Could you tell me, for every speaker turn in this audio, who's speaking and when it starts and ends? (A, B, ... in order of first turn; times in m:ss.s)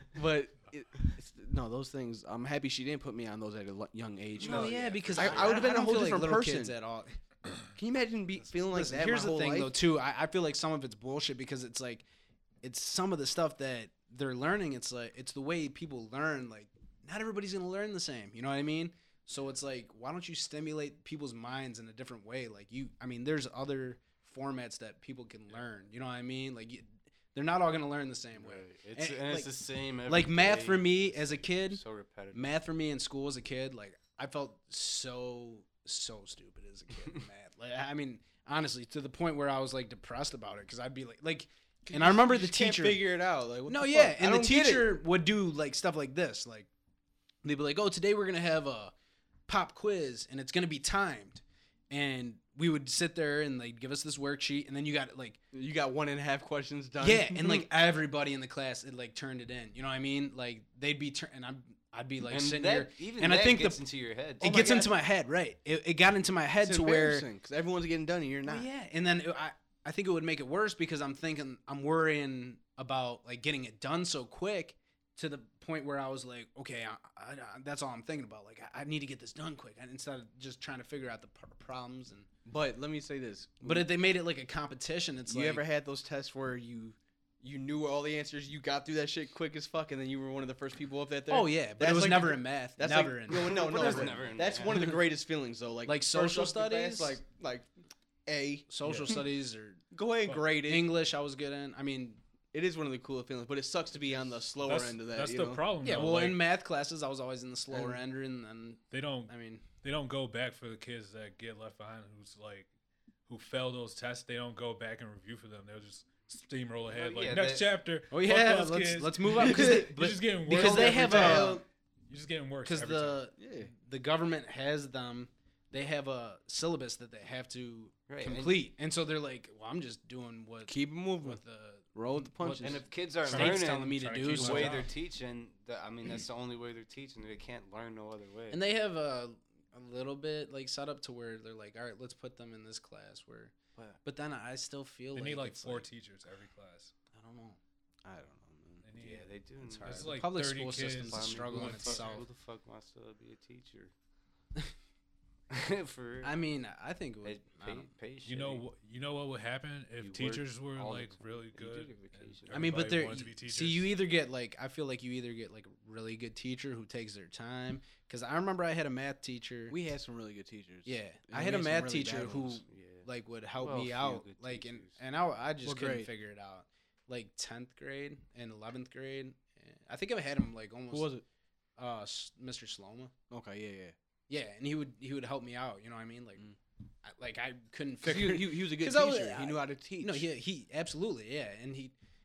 0:00.1-0:06.8 A
0:04.4-0:06.0 B
0:04.4-0:07.2 C
0:07.8-0:09.8 A
0:08.6-0:12.0 C
0:12.6-0:29.5 C
0:28.4-0:32.5 B
0:30.0-0:43.0 C
0:41.9-0:45.0 A
0:43.7-0:46.7 C
0:47.4-0:48.9 C
0:49.5-0:55.4 C
0:55.5-0:57.7 A
0:57.0-1:03.9 C
1:02.2-1:04.8 B
1:04.4-1:07.3 C
1:04.4-1:05.0 A
1:06.6-1:08.7 A
1:08.4-1:22.3 C
1:22.4-1:23.9 A
1:23.6-1:25.6 C
1:25.3-1:37.7 A
1:31.3-1:35.0 C
1:33.3-1:34.9 B
1:35.8-1:37.2 C
1:38.3-1:39.3 A
1:38.7-1:39.8 C
1:39.9-1:41.0 A
1:40.2-1:40.5 D
1:40.6-1:42.2 C
1:42.5-1:45.6 A
1:44.6-1:46.4 D
1:45.8-1:49.6 C
1:47.7-1:48.0 A
1:48.9-1:52.7 D
1:53.3-2:03.3 D
1:56.9-1:57.8 B
1:58.1-2:01.6 C
1:59.4-1:59.7 B
2:00.5-2:01.6 A
2:00.9-2:01.4 B
2:02.6-2:14.8 C
2:03.4-2:03.7 A
2:08.1-2:08.7 B
2:10.7-2:11.4 A
2:11.9-2:12.8 A
2:12.6-2:18.6 B
2:13.2-2:14.9 D
2:18.5-2:25.9 C
2:25.1-2:26.9 D
2:27.1-2:27.6 C
2:28.1-2:28.8 A
2:28.8-2:32.3 D
2:28.9-2:33.9 B
2:29.6-2:32.2 C
2:35.5-2:36.4 B
2:36.2-2:37.9 C
2:37.2-2:38.6 B
2:38.2-2:43.9 D
2:40.0-2:43.0 B
2:42.5-2:49.8 C
2:49.7-2:52.6 A
2:50.9-3:01.1 C
2:52.6-2:55.0 B
2:55.6-2:56.1 A
3:00.9-3:01.2 A
3:01.8-3:03.1 C
3:03.3-3:04.0 A
3:04.3-3:06.5 C
3:07.0-3:11.9 C
3:08.0-3:10.3 A